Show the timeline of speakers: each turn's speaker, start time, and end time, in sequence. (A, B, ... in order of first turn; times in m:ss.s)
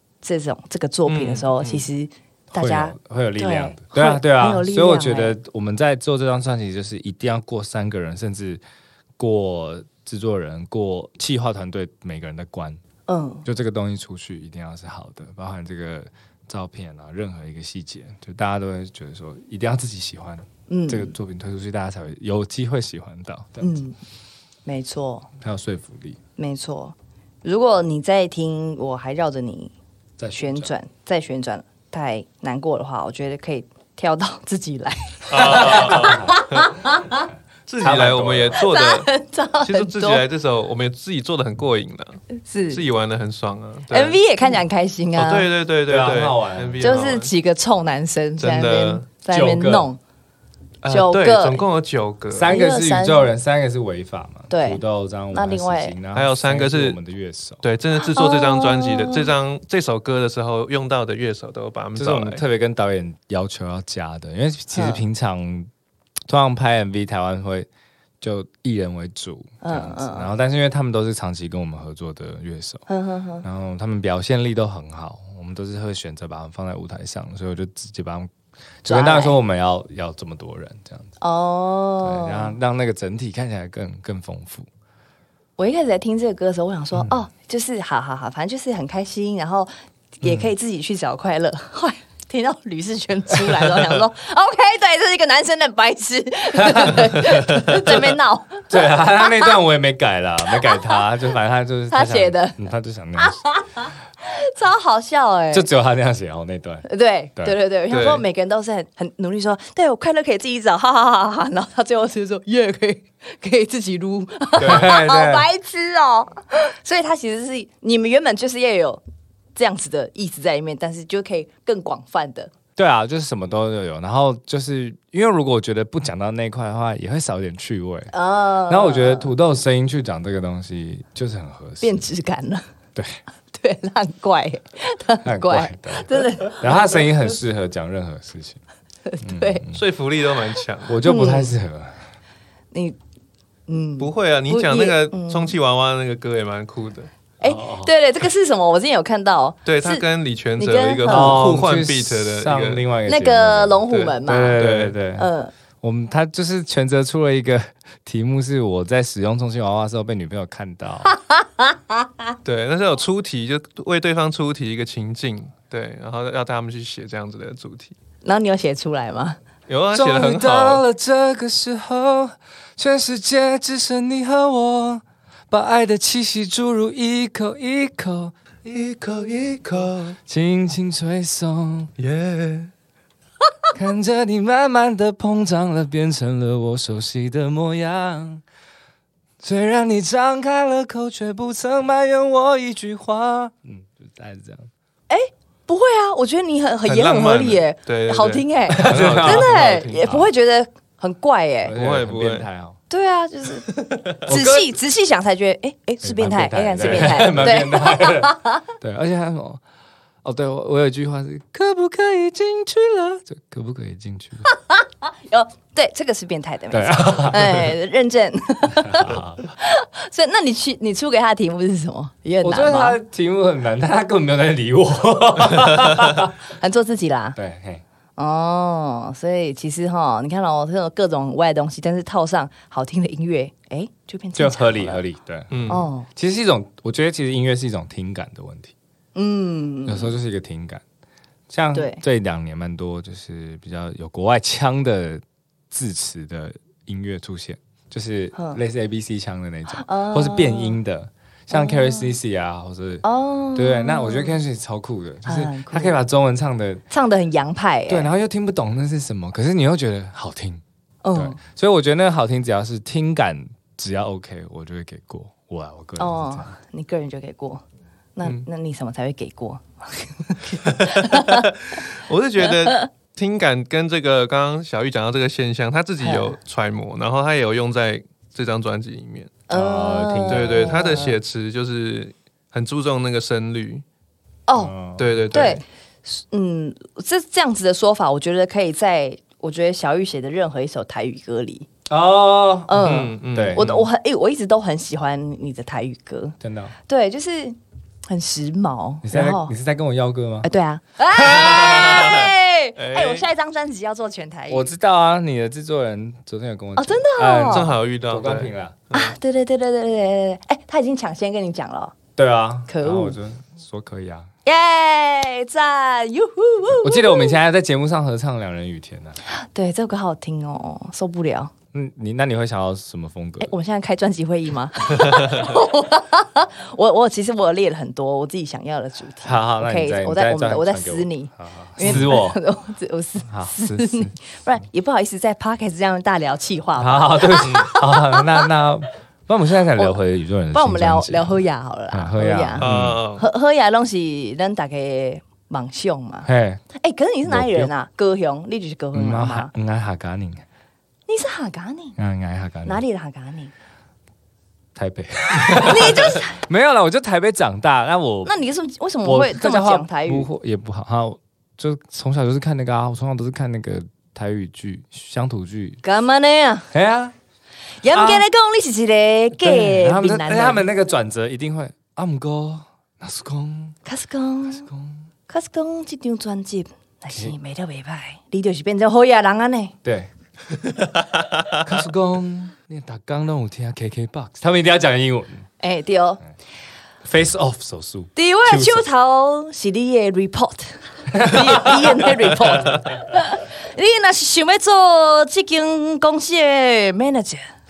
0:00.2-0:05.4 A
0:01.1-0:01.9 B
0:02.5-0:08.6 C
0:09.2-0:12.8 C
0:13.1-0:13.5 A
0:13.4-0:23.7 C
0:20.7-0:21.2 A
0:23.6-0:24.0 A
0:24.7-0:25.3 A
0:25.4-0:26.2 C
0:26.4-0:29.7 A
0:30.2-0:30.7 C
0:30.4-0:37.3 A
0:35.3-0:36.7 B
0:35.4-0:36.4 C
0:37.7-0:39.1 B
0:37.8-0:38.6 C
0:38.6-0:40.2 A
0:39.6-0:44.2 B
0:42.4-0:42.8 A
0:43.9-0:45.5 A
0:45.2-0:47.3 B
0:45.9-0:46.9 C
0:46.8-0:50.0 A
0:48.4-0:49.1 B
0:49.3-0:49.9 C
0:50.8-0:52.5 B
0:50.9-0:51.6 A
0:52.3-0:57.6 C
0:52.5-0:53.3 A
0:54.5-0:56.0 A
0:56.1-0:57.0 B
0:57.6-1:02.4 B
0:58.0-0:59.3 A
1:02.0-1:05.7 C
1:04.7-1:05.0 A
1:06.3-1:07.7 C
1:08.2-1:12.8 C
1:09.6-1:10.3 A
1:12.9-1:13.4 A
1:13.4-1:18.3 C
1:18.8-1:21.1 C
1:18.9-1:19.4 A
1:21.2-1:22.6 A
1:22.0-1:24.7 C
1:25.6-1:39.6 A
1:30.2-1:30.5 C
1:36.6-1:37.3 C
1:38.7-1:43.4 C
1:40.5-1:41.0 A
1:41.9-1:42.6 A
1:43.2-1:45.7 A
1:45.5-1:46.8 C
1:46.8-1:59.0 A
1:47.9-1:48.2 B
1:54.6-1:55.5 C
1:59.6-2:02.5 A
2:02.8-2:08.1 C
2:08.1-2:09.3 A
2:08.7-2:12.0 C
2:11.8-2:12.6 A
2:13.5-2:17.1 A
2:15.2-2:18.6 C
2:19.1-2:19.6 A
2:19.2-2:19.8 C
2:19.7-2:21.0 B
2:20.9-2:22.0 C
2:21.0-2:21.5 A
2:22.7-2:23.0 A
2:23.7-2:25.6 A
2:24.0-2:27.1 B
2:27.4-2:30.0 A
2:27.4-2:27.9 C
2:29.7-2:32.8 B
2:30.6-2:31.4 A
2:31.1-2:35.3 C
2:33.1-2:34.6 A
2:34.6-2:35.0 B
2:35.2-2:35.5 A
2:35.8-2:41.1 C
2:41.1-2:42.4 A
2:42.4-2:48.0 B
2:48.2-2:49.4 A
2:49.7-2:50.8 B
2:49.9-2:58.4 C
2:58.6-3:00.2 B
3:00.3-3:01.9 C
3:02.0-3:02.7 B
3:03.7-3:08.4 C
3:09.4-3:14.7 C
3:15.1-3:21.7 A
3:16.9-3:20.0 B
3:18.7-3:20.3 C
3:21.6-3:22.8 C
3:21.8-3:22.5 B
3:22.9-3:23.7 A
3:24.2-3:28.6 A
3:24.3-3:24.7 C
3:26.0-3:29.6 C
3:27.0-3:27.5 B
3:30.2-3:34.5 C
3:34.5-3:43.0 A
3:36.7-3:37.7 C
3:38.8-3:39.4 C
3:42.4-3:46.3 C
3:46.6-3:47.4 A
3:47.4-3:47.8 C
3:48.2-3:55.0 A
3:54.4-3:58.7 C
3:55.5-3:55.9 B
3:55.7-3:56.1 A
3:59.2-4:00.1 A
3:59.9-4:00.8 C
4:01.5-4:13.0 C
4:01.7-4:02.0 A
4:08.3-4:08.6 A
4:09.7-4:10.8 A
4:11.5-4:12.2 A
4:13.0-4:14.4 A
4:13.6-4:16.8 C
4:15.2-4:16.0 A
4:16.9-4:18.1 A
4:17.9-4:20.6 C
4:21.0-4:21.4 A
4:21.1-4:26.5 C
4:26.0-4:27.6 A
4:28.2-4:31.5 A
4:30.7-4:39.3 B
4:32.4-4:32.9 A
4:36.0-4:36.4 A
4:39.5-4:41.2 A
4:39.5-4:40.8 C
4:40.3-4:43.8 B
4:44.5-4:44.7 A
4:44.6-4:45.5 C
4:45.0-4:45.6 B
4:45.3-4:51.7 A
4:51.9-4:53.7 C
4:52.7-4:56.4 A
4:52.8-4:53.8 B
4:56.4-4:56.7 C
4:56.9-4:57.6 A
4:58.1-4:59.5 A
4:59.0-5:00.5 C
5:00.4-5:04.7 A
5:01.2-5:03.3 B
5:04.5-5:08.8 C
5:06.8-5:07.7 A
5:07.5-5:09.2 B
5:08.9-5:12.0 A
5:12.2-5:14.3 C
5:12.7-5:13.2 A
5:14.4-5:17.4 A
5:16.7-5:19.2 C
5:19.2-5:21.5 A
5:21.7-5:23.5 C
5:23.4-5:38.5 A
5:29.2-5:32.4 C
5:31.8-5:32.1 B
5:33.3-5:34.2 C
5:36.8-5:41.4 C
5:37.4-5:37.7 B
5:40.5-5:49.5 A
5:41.9-5:43.0 C
5:42.6-5:43.2 B
5:46.2-5:46.6 C
5:47.3-5:47.7 C
5:48.9-5:50.4 C
5:51.1-5:52.0 A
5:52.0-5:52.8 C
5:52.6-5:53.5 A
5:54.8-5:58.3 C
5:55.6-5:56.4 A
5:58.2-6:00.3 A
5:59.0-6:05.8 C
6:05.8-6:06.7 A
6:06.7-6:07.1 C
6:07.8-6:10.7 A
6:07.9-6:08.3 C
6:09.4-6:13.8 C
6:13.8-6:14.7 A
6:14.5-6:15.0 C
6:15.3-6:19.8 A
6:19.8-6:20.1 C
6:21.6-6:25.5 C
6:25.6-6:26.2 A
6:27.0-6:28.8 C
6:28.2-6:37.5 A
6:31.1-6:32.7 C